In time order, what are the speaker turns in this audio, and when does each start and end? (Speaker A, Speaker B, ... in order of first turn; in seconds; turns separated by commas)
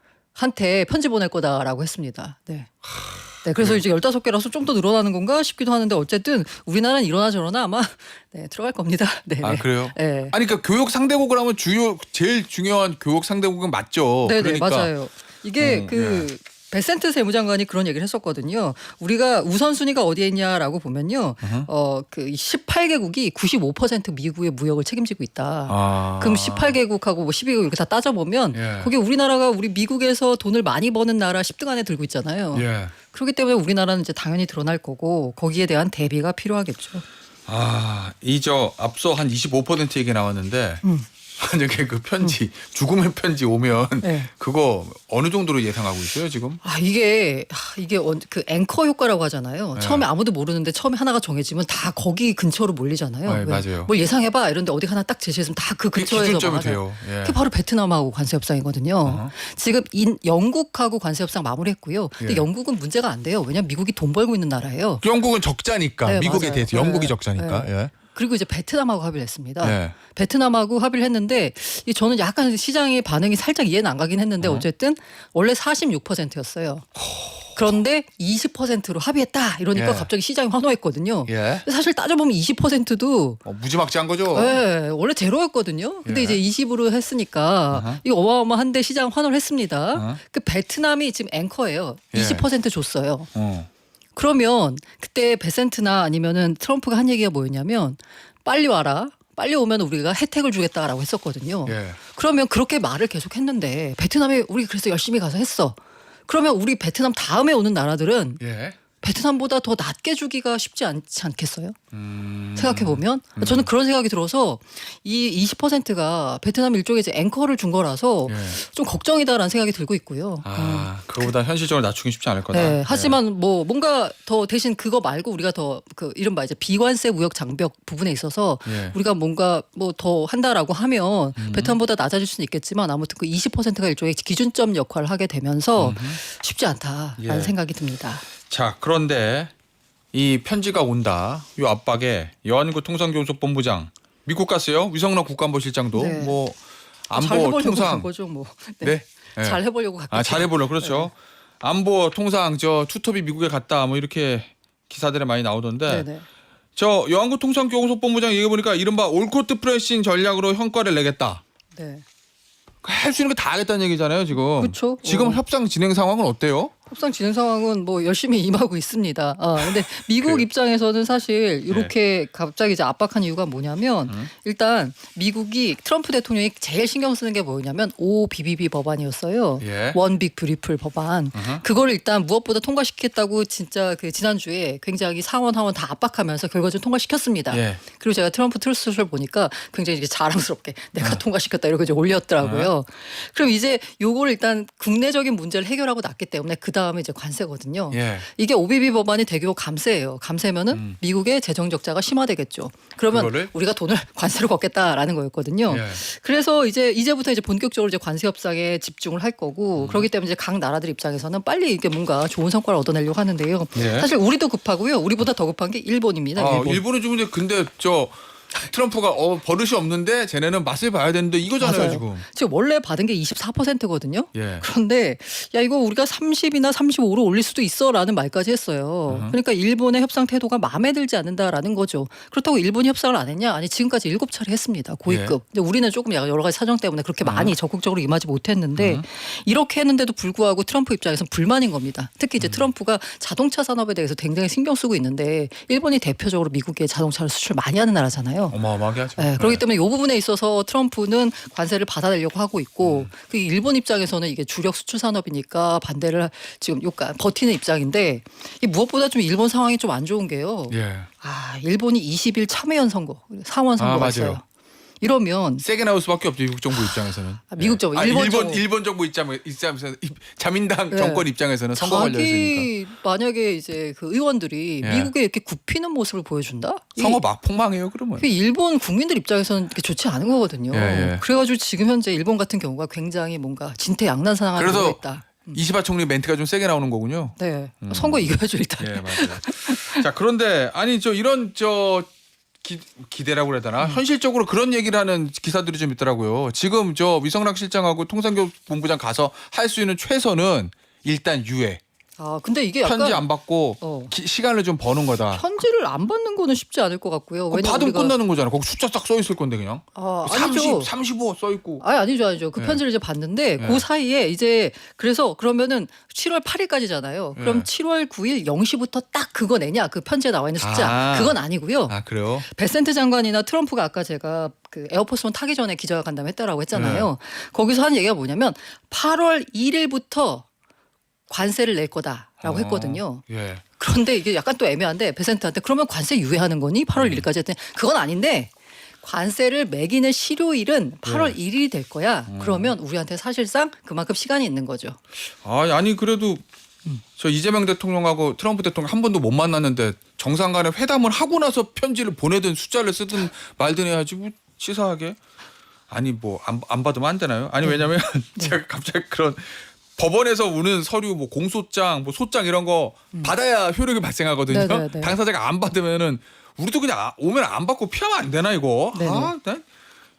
Speaker A: 0.3-2.7, Speaker B: 2.8-3.8, Speaker A: 3.4-10.3, Speaker B: 9.4-14.9, Speaker A: 14.2-37.0, Speaker B: 15.6-16.3, Speaker B: 21.4-21.7, Speaker B: 25.7-26.8, Speaker B: 28.5-28.9, Speaker B: 32.5-32.9, Speaker B: 37.5-40.8, Speaker B: 41.4-46.6, Speaker A: 44.0-44.3, Speaker A: 46.6-65.0, Speaker B: 49.8-50.0, Speaker B: 53.2-53.9, Speaker B: 56.0-57.4, Speaker B: 59.0-59.3, Speaker B: 65.0-67.9, Speaker A: 66.0-76.9, Speaker B: 69.6-70.0, Speaker B: 74.4-74.7, Speaker B: 77.0-77.6, Speaker A: 77.5-83.4, Speaker B: 79.7-80.1, Speaker B: 81.2-81.6, Speaker B: 83.4-84.6, Speaker A: 84.3-93.3, Speaker B: 86.0-86.4, Speaker B: 87.7-88.0, Speaker B: 89.9-90.2, Speaker B: 92.1-92.5, Speaker B: 93.3-93.7, Speaker A: 94.2-105.8, Speaker B: 101.7-102.0, Speaker A: 106.3-108.4, Speaker B: 108.4-108.8, Speaker A: 109.0-111.8, Speaker B: 111.9-113.7, Speaker A: 112.6-121.3, Speaker B: 118.3-118.6, Speaker B: 120.4-123.2, Speaker A: 122.5-138.2, Speaker B: 128.7-128.9, Speaker B: 131.3-131.8, Speaker B: 135.8-136.2, Speaker B: 137.2-137.5, Speaker B: 138.4-139.5, Speaker B: 140.1-148.1, Speaker A: 145.9-146.3, Speaker A: 147.1-151.1, Speaker B: 148.8-156.1, Speaker A: 155.9-156.2, Speaker B: 156.8-161.4, Speaker A: 161.7-162.0, Speaker B: 162.8-166.7, Speaker A: 164.6-165.4, Speaker A: 166.9-216.8, Speaker B: 169.6-170.4, Speaker B: 179.6-180.0, Speaker B: 181.3-181.6, Speaker B: 187.5-187.8, Speaker B: 192.4-192.7, Speaker B: 197.9-198.3, Speaker B: 200.7-201.0, Speaker B: 203.1-203.5, Speaker B: 205.7-206.0, Speaker B: 209.8-210.1, Speaker B: 213.7-214.1, Speaker B: 216.3-222.2, Speaker A: 221.6-248.6, Speaker B: 224.3-224.7, Speaker B: 229.1-229.3, Speaker B: 235.1-235.3, Speaker B: 237.2-237.5, Speaker B: 238.8-239.0, Speaker B: 242.4-242.6, Speaker B: 248.5-249.6, Speaker A: 249.2-264.4, Speaker B: 252.8-253.1, Speaker B: 260.7-261.1, Speaker B: 263.8-264.4, Speaker A: 265.0-265.6, Speaker B: 265.6-272.7, Speaker A: 267.5-268.6, Speaker A: 270.9-277.2, Speaker B: 274.8-275.1, Speaker B: 277.0-278.3, Speaker A: 278.2-285.6, Speaker B: 280.7-281.2, Speaker B: 284.6-292.1, Speaker A: 287.4-290.0, Speaker B: 292.6-301.8, Speaker A: 302.2-303.2, Speaker B: 302.8-305.4, Speaker A: 303.8-304.1, Speaker A: 305.3-308.1, Speaker B: 307.5-311.8, Speaker A: 309.9-310.9, Speaker A: 311.8-330.4, Speaker B: 313.6-313.8, Speaker B: 317.3-317.7, Speaker B: 320.6-321.4, Speaker B: 321.9-322.5, Speaker B: 326.7-327.1, Speaker A: 331.3-333.2, Speaker B: 332.4-333.6, Speaker A: 333.8-338.5, Speaker B: 336.9-337.2, Speaker A: 339.0-345.0, Speaker B: 341.0-341.3, Speaker B: 342.3-342.7, Speaker B: 345.4-346.4, Speaker B: 347.1-355.2, Speaker B: 355.9-369.6, Speaker A: 357.6-358.6, Speaker A: 364.5-365.1, Speaker A: 368.9-369.3